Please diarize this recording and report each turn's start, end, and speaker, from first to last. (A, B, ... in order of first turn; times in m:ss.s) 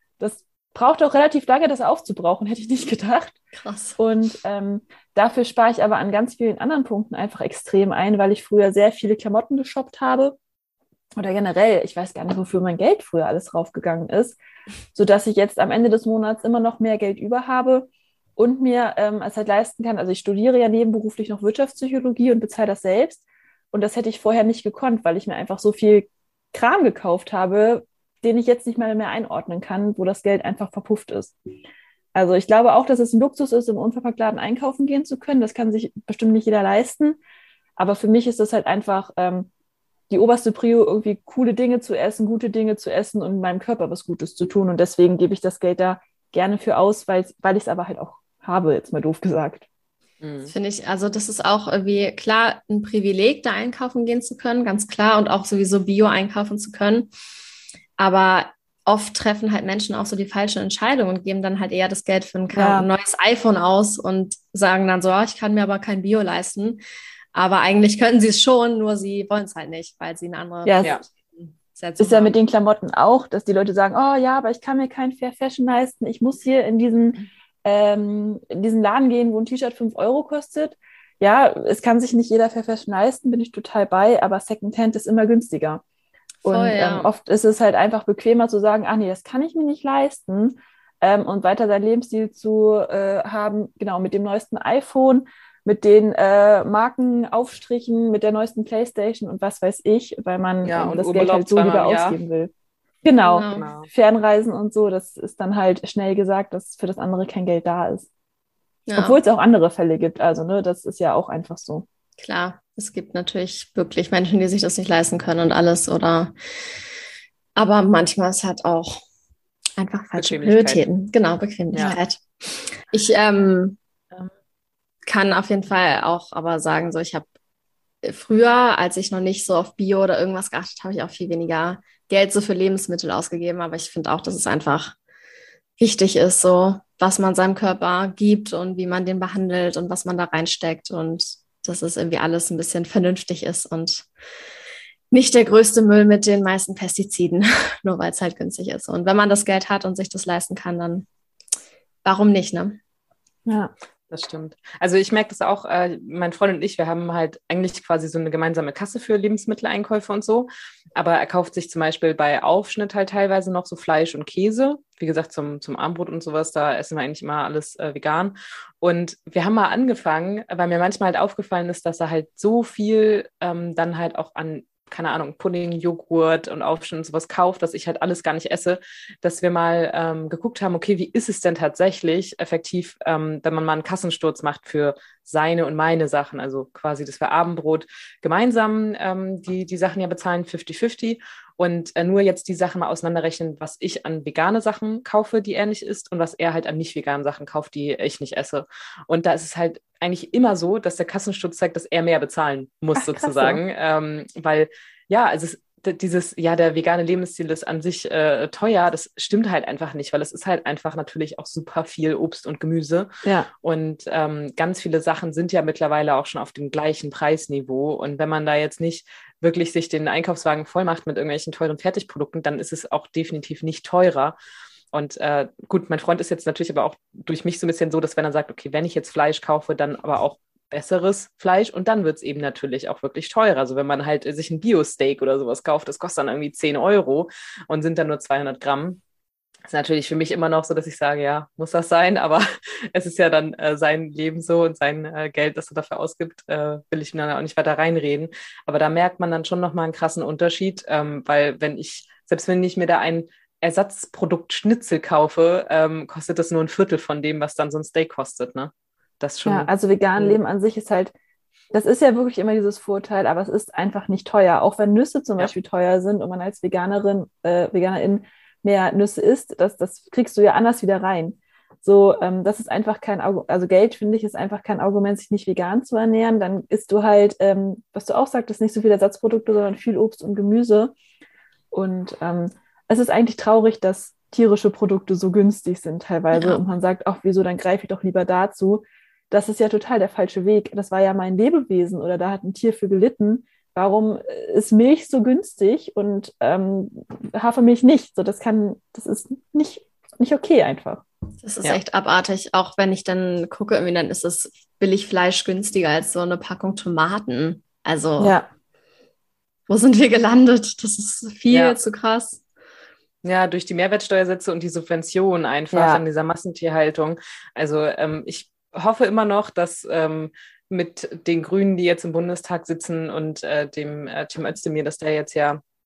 0:00.2-0:03.3 A
0:03.5-0:04.0 B
0:04.0-0:10.4 A
0:11.2-0:14.4 A
0:14.9-0:31.3 A
0:32.1-0:37.2 A
0:37.8-0:39.5 A
0:40.1-0:49.6 A
0:50.2-0:50.5 C
0:50.4-0:57.1 B
0:58.0-1:06.8 B
1:02.5-1:02.9 A
1:07.3-1:12.3 B
1:10.6-1:11.0 A
1:12.0-1:25.8 A
1:26.4-1:42.5 A
1:26.4-1:27.1 B
1:40.6-1:42.2 C
1:43.0-1:48.1 A
1:43.2-1:43.7 B
1:43.5-1:43.9 C
1:48.9-1:49.2 B
1:49.0-1:51.8 A
1:52.2-1:56.8 B
1:57.6-1:59.0 B
1:59.8-2:03.8 B
2:00.2-2:00.8 C
2:01.7-2:02.0 C
2:05.0-2:07.2 B
2:08.0-2:15.0 B
2:15.8-2:24.1 B
2:25.1-2:31.0 B
2:32.0-2:32.8 B
2:33.4-2:33.7 A
2:34.1-3:33.1 C
3:23.0-3:23.6 A
3:33.6-3:44.4 C
3:44.9-3:59.0 C
3:59.6-4:20.4 C
4:19.4-4:21.1 A
4:21.7-4:40.9 A
4:41.7-5:01.0 A
4:46.3-4:46.6 B
5:01.4-5:08.4 B
5:08.2-5:08.5 A
5:09.7-5:12.4 B
5:11.5-5:11.8 C
5:13.2-5:25.6 C
5:15.7-5:16.0 A